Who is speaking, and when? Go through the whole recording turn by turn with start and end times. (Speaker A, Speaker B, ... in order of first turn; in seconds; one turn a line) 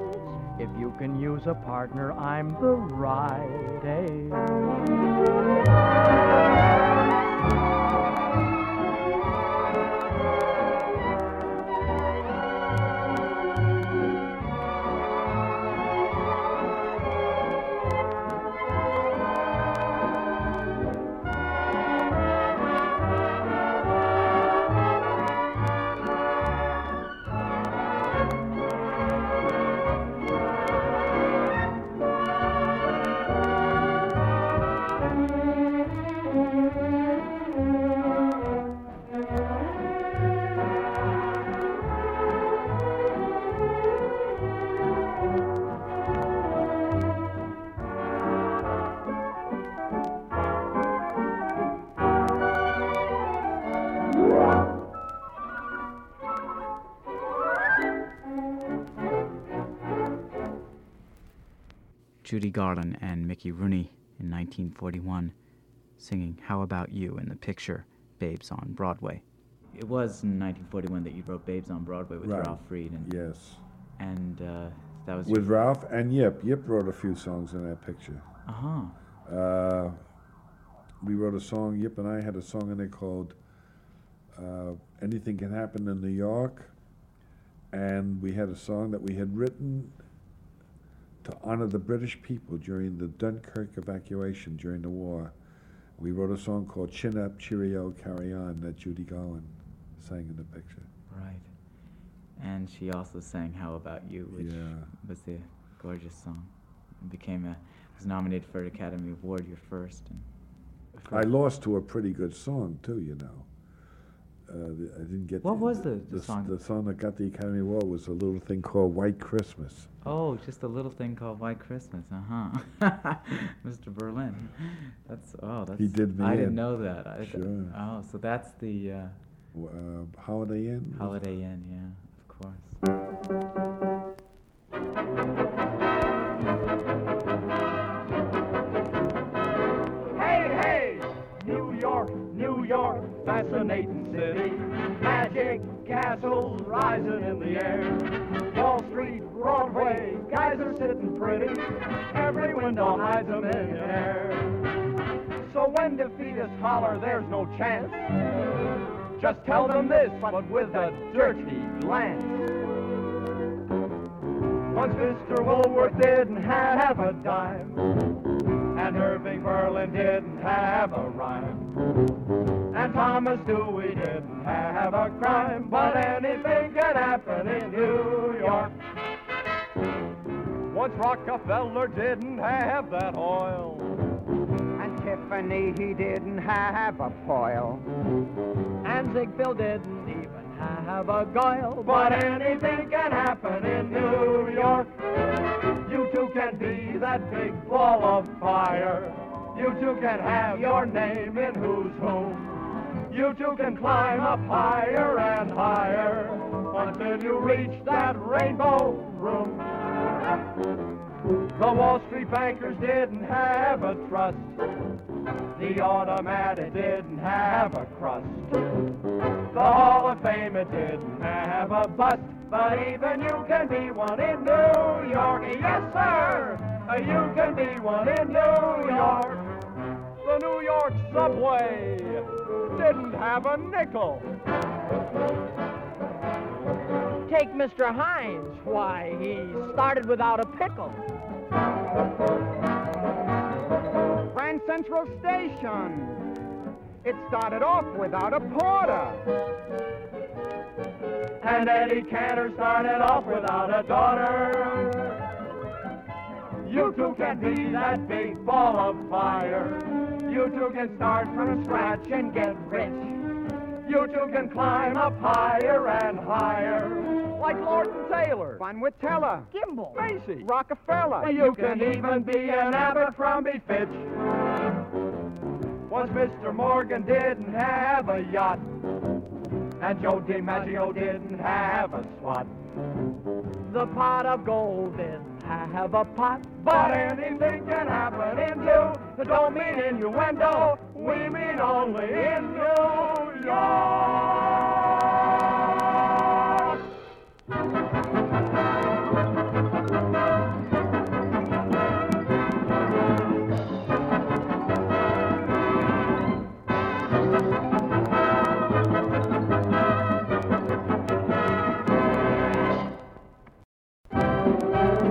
Speaker A: 0.6-4.5
Speaker B: 62.2-65.3
Speaker B: 66.0-73.1
Speaker C: 72.2-73.6
Speaker B: 74.0-75.5
Speaker C: 75.2-78.3
Speaker B: 78.5-79.0
Speaker C: 79.2-80.0
Speaker C: 81.0-83.3
Speaker C: 84.3-86.7
Speaker C: 87.7-90.0
Speaker C: 91.2-95.3
Speaker C: 96.0-100.9
Speaker B: 101.1-101.5
Speaker B: 102.4-110.3
Speaker C: 104.3-104.9
Speaker B: 110.9-111.3
Speaker C: 111.1-113.5
Speaker C: 114.5-119.9
Speaker B: 115.4-116.5
Speaker B: 120.0-129.2
Speaker C: 125.8-126.7
Speaker C: 127.2-127.7
Speaker C: 129.5-131.2
Speaker B: 130.9-132.8
Speaker D: 140.1-154.4
Speaker D: 155.4-158.1
Speaker D: 159.2-162.4
Speaker D: 164.7-167.8
Speaker D: 168.7-171.7
Speaker D: 172.7-178.7
Speaker D: 180.7-183.9
Speaker E: 184.8-187.8
Speaker D: 188.8-190.6
Speaker D: 191.7-194.9
Speaker D: 195.8-202.6
Speaker D: 203.1-209.7
Speaker D: 211.5-214.6
Speaker D: 215.5-218.6
Speaker D: 219.5-229.4
Speaker D: 230.2-234.3
Speaker E: 237.3-238.5
Speaker D: 237.3-240.4
Speaker E: 239.9-241.0
Speaker E: 244.3-246.2
Speaker E: 247.0-249.2
Speaker D: 251.4-255.0
Speaker D: 256.6-263.2
Speaker D: 263.8-268.6
Speaker E: 268.6-269.5
Speaker D: 269.6-270.5
Speaker E: 270.4-271.3
Speaker D: 271.2-274.1
Speaker D: 275.9-278.7
Speaker D: 279.8-282.5
Speaker A: 283.7-286.4
Speaker D: 286.4-294.6